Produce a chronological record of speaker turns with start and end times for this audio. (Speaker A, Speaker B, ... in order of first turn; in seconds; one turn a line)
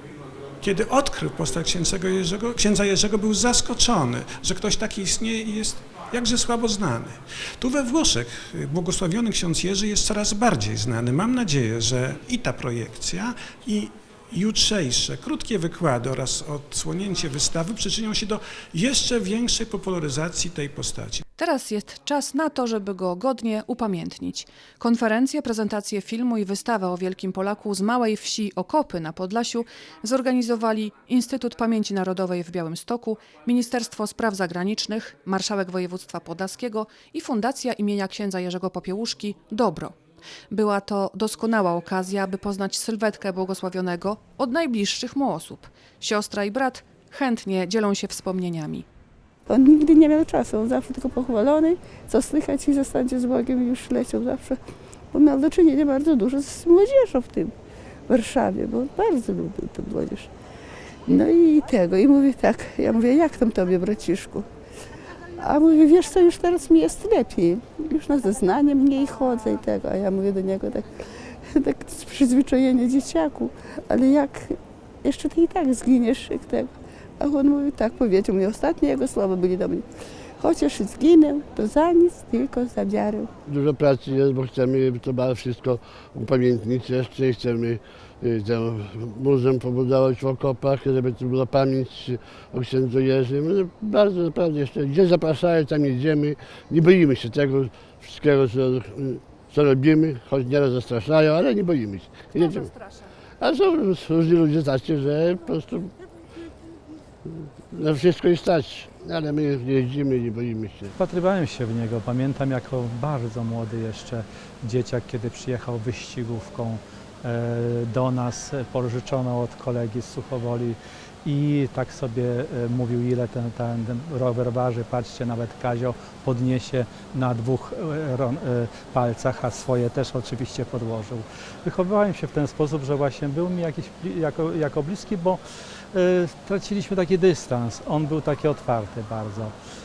Speaker A: 0.6-21.2
Speaker B: 21.4-40.0
Speaker B: 40.5-48.9
Speaker C: 49.5-54.6
Speaker C: 55.1-57.5
Speaker C: 58.1-60.3
Speaker C: 61.1-64.5
Speaker C: 65.4-70.9
Speaker C: 71.5-79.8
Speaker C: 80.4-83.3
Speaker D: 83.5-102.7
Speaker B: 102.3-103.1
Speaker D: 103.4-105.9
Speaker D: 107.7-110.9
Speaker E: 111.0-135.4
Speaker E: 135.9-139.5